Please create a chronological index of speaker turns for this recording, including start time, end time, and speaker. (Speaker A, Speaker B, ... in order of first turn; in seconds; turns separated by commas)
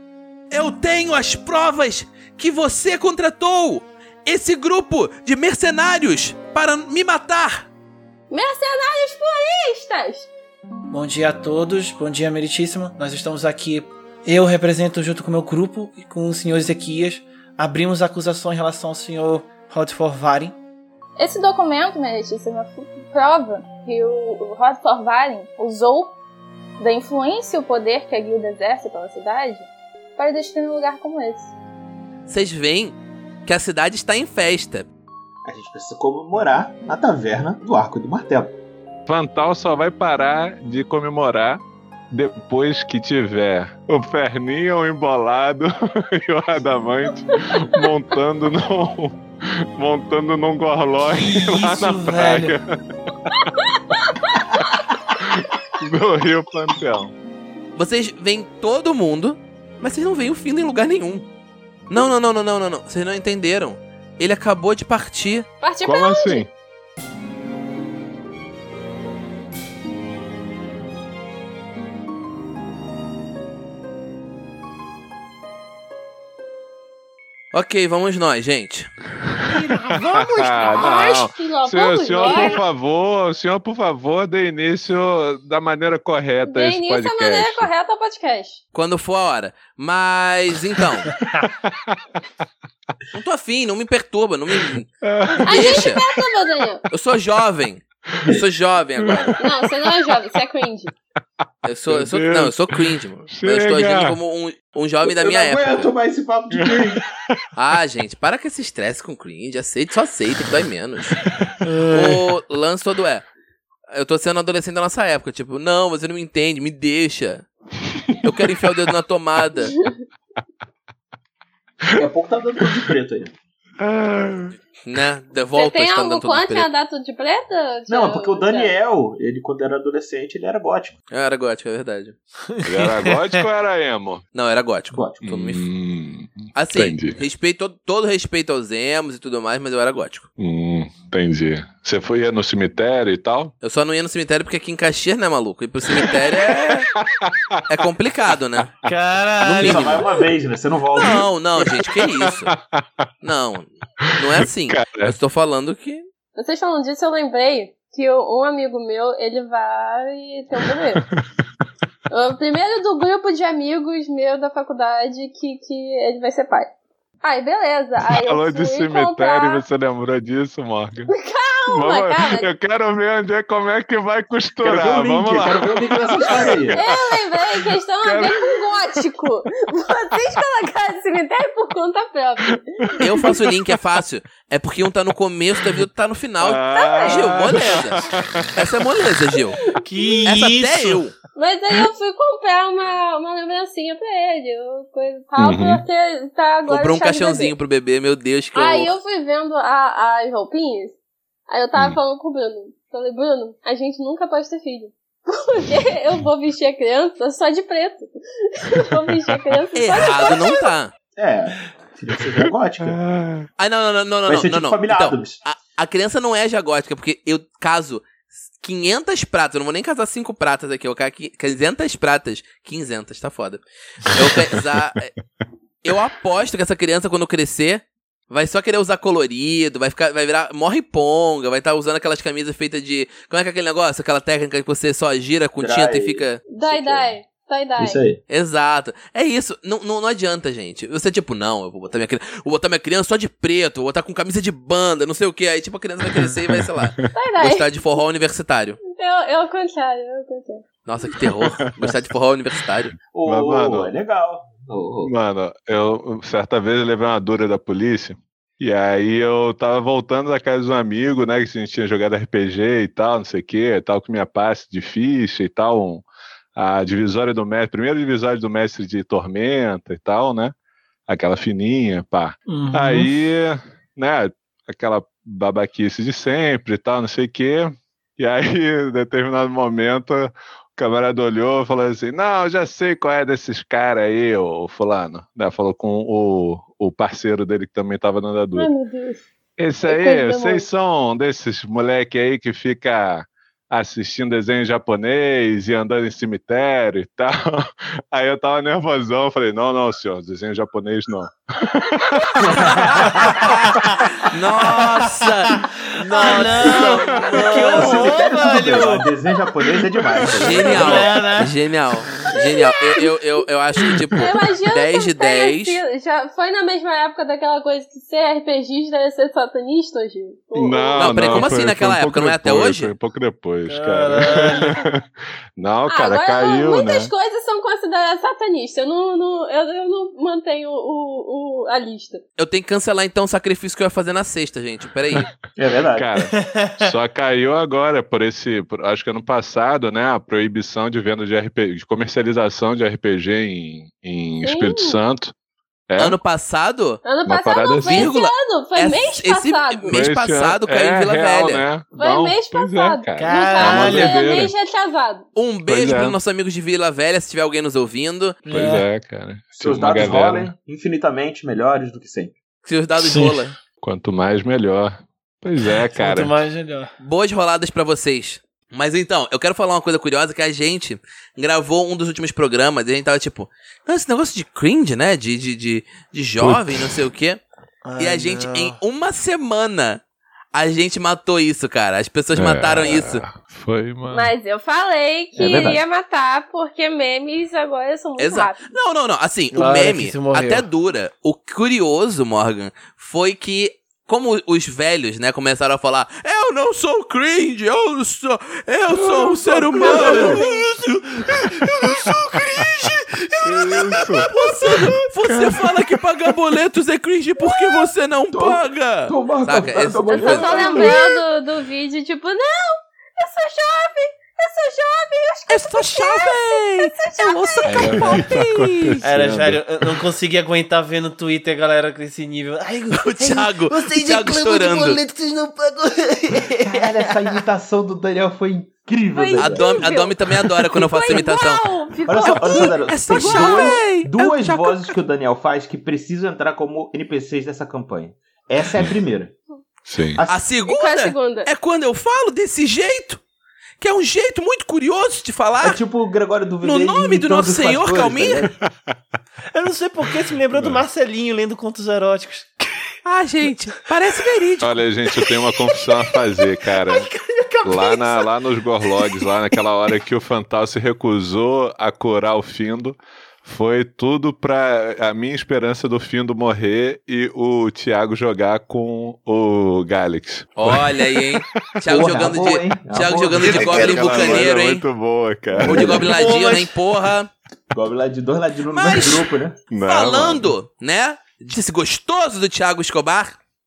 Speaker A: 0.5-7.7, Speaker B: 8.3-10.3, Speaker C: 10.9-20.6, Speaker B: 21.2-26.1, Speaker B: 26.8-31.5, Speaker A: 32.3-34.9, Speaker D: 35.4-38.5, Speaker E: 39.0-52.8, Speaker C: 51.1-52.6, Speaker E: 55.1-57.1, Speaker A: 57.8-61.3, Speaker A: 61.9-65.5, Speaker B: 65.6-66.5, Speaker E: 65.8-66.5, Speaker A: 77.5-78.9, Speaker C: 79.4-81.2, Speaker E: 79.4-87.7, Speaker B: 80.7-82.6, Speaker C: 82.2-82.5, Speaker B: 86.5-88.6, Speaker A: 88.7-91.1, Speaker E: 91.6-92.0, Speaker A: 93.1-94.9, Speaker E: 94.6-96.1, Speaker B: 95.3-96.8, Speaker A: 95.5-96.0, Speaker A: 96.9-99.3, Speaker E: 99.0-99.4, Speaker B: 99.4-100.9, Speaker A: 101.6-105.9, Speaker E: 101.9-104.2, Speaker D: 105.0-107.0, Speaker E: 106.5-107.4, Speaker A: 107.5-111.2, Speaker E: 111.2-111.7, Speaker C: 111.7-112.0, Speaker A: 111.8-113.3, Speaker A: 113.9-117.5, Speaker A: 118.2-119.7, Speaker D: 121.9-123.3, Speaker E: 123.8-124.5, Speaker A: 124.8-126.7, Speaker B: 125.5-128.7, Speaker D: 127.9-130.9, Speaker A: 131.1-132.2, Speaker C: 132.5-133.4, Speaker E: 132.6-134.2, Speaker A: 134.3-135.7, Speaker D: 134.9-135.2, Speaker E: 135.2-137.2, Speaker A: 136.5-140.3, Speaker E: 140.4-143.5, Speaker A: 143.6-146.9, Speaker E: 145.9-147.6, Speaker A: 147.7-148.7, Speaker C: 148.8-150.1, Speaker A: 149.4-150.0, Speaker D: 149.6-151.3, Speaker A: 150.9-152.5, Speaker E: 151.7-153.1, Speaker A: 153.2-156.1, Speaker E: 154.1-155.1, Speaker B: 156.3-161.0, Speaker E: 160.9-161.4, Speaker B: 162.1-169.6, Speaker E: 168.0-171.1, Speaker B: 171.1-172.5, Speaker E: 171.7-178.7, Speaker D: 174.6-176.9, Speaker A: 176.2-176.6, Speaker B: 176.7-183.3, Speaker E: 182.4-183.8, Speaker A: 183.0-189.6, Speaker E: 186.4-188.7, Speaker B: 186.7-187.3, Speaker C: 189.8-191.0, Speaker A: 190.2-191.2, Speaker B: 191.3-197.5, Speaker E: 195.4-195.8, Speaker A: 196.7-198.9, Speaker B: 198.5-201.0, Speaker B: 201.5-210.7, Speaker A: 209.7-210.9, Speaker D: 211.2-213.0, Speaker E: 212.2-213.5, Speaker A: 213.6-225.1, Speaker D: 214.3-215.4, Speaker A: 225.8-236.4, Speaker D: 235.6-237.1, Speaker B: 236.4-238.0, Speaker D: 237.8-238.2, Speaker A: 238.3-248.8, Speaker E: 246.2-247.0, Speaker B: 247.1-247.7, Speaker B: 248.8-250.6, Speaker A: 250.8-252.9, Speaker E: 251.6-251.9, Speaker D: 253.1-255.1, Speaker E: 253.2-253.9, Speaker E: 255.0-266.0, Speaker E: 266.6-270.5, Speaker E: 271.1-288.7, Speaker C: 272.5-273.1, Speaker B: 288.6-289.2, Speaker E: 289.6-303.7, Speaker B: 289.8-290.6, Speaker C: 302.9-304.0, Speaker A: 304.2-305.6, Speaker C: 305.2-309.1, Speaker B: 306.1-308.0, Speaker A: 306.2-308.1, Speaker D: 306.2-311.1, Speaker E: 307.9-308.1, Speaker A: 310.4-315.8, Speaker C: 310.6-311.5, Speaker B: 312.3-313.1, Speaker B: 313.9-321.4, Speaker E: 320.5-327.1, Speaker A: 321.0-322.9, Speaker C: 323.7-324.8, Speaker B: 325.9-332.2, Speaker A: 332.4-335.3, Speaker D: 335.6-336.1, Speaker E: 335.9-345.3, Speaker C: 336.4-336.9, Speaker B: 344.4-345.0, Speaker E: 345.9-346.2, Speaker A: 346.0-347.0, Speaker B: 347.0-350.0, Speaker E: 347.2-348.1, Speaker A: 347.8-351.6, Speaker E: 349.9-354.5, Speaker B: 351.9-355.2, Speaker C: 353.2-354.2, Speaker A: 355.4-358.4, Speaker E: 355.6-356.2, Speaker C: 358.5-358.8, Speaker D: 358.5-358.8, Speaker E: 358.5-360.5, Speaker D: 359.5-362.3, Speaker A: 362.6-363.6, Speaker C: 363.0-363.4, Speaker E: 363.8-366.4, Speaker C: 365.8-366.9, Speaker A: 367.0-377.4, Speaker E: 376.4-377.1, Speaker C: 377.8-378.8, Speaker A: 378.0-380.0, Speaker A: 380.5-383.2, Speaker E: 382.3-384.3, Speaker B: 384.1-388.7, Speaker C: 385.4-385.8, Speaker A: 388.2-400.4, Speaker C: 389.5-390.6, Speaker E: 398.9-399.3, Speaker D: 399.7-400.4, Speaker C: 399.8-405.1, Speaker E: 400.1-400.4, Speaker E: 403.4-404.3, Speaker A: 404.3-411.0, Speaker E: 405.3-405.8, Speaker D: 408.3-411.1, Speaker B: 410.0-418.5, Speaker A: 415.5-419.0, Speaker E: 417.7-419.8, Speaker C: 417.8-418.2, Speaker C: 419.0-427.4, Speaker A: 422.9-425.0, Speaker D: 426.6-429.9, Speaker B: 429.1-433.8, Speaker A: 429.4-434.8, Speaker D: 432.1-439.3, Speaker E: 439.9-440.2, Speaker D: 440.1-440.4, Speaker A: 440.3-443.2, Speaker B: 440.6-441.5, Speaker A: 443.8-445.8, Speaker D: 445.6-448.6, Speaker A: 446.6-448.5, Speaker C: 449.5-452.9, Speaker E: 450.5-450.8, Speaker A: 453.0-454.7, Speaker E: 454.6-457.1, Speaker C: 455.1-458.3, Speaker E: 457.6-471.3, Speaker C: 458.9-459.3, Speaker A: 470.6-474.9, Speaker D: 471.8-474.3, Speaker E: 473.4-476.1, Speaker A: 475.6-477.3, Speaker D: 475.6-476.1, Speaker C: 475.7-476.8, Speaker D: 477.7-479.6, Speaker A: 478.7-479.3, Speaker E: 479.7-480.5, Speaker A: 479.8-483.4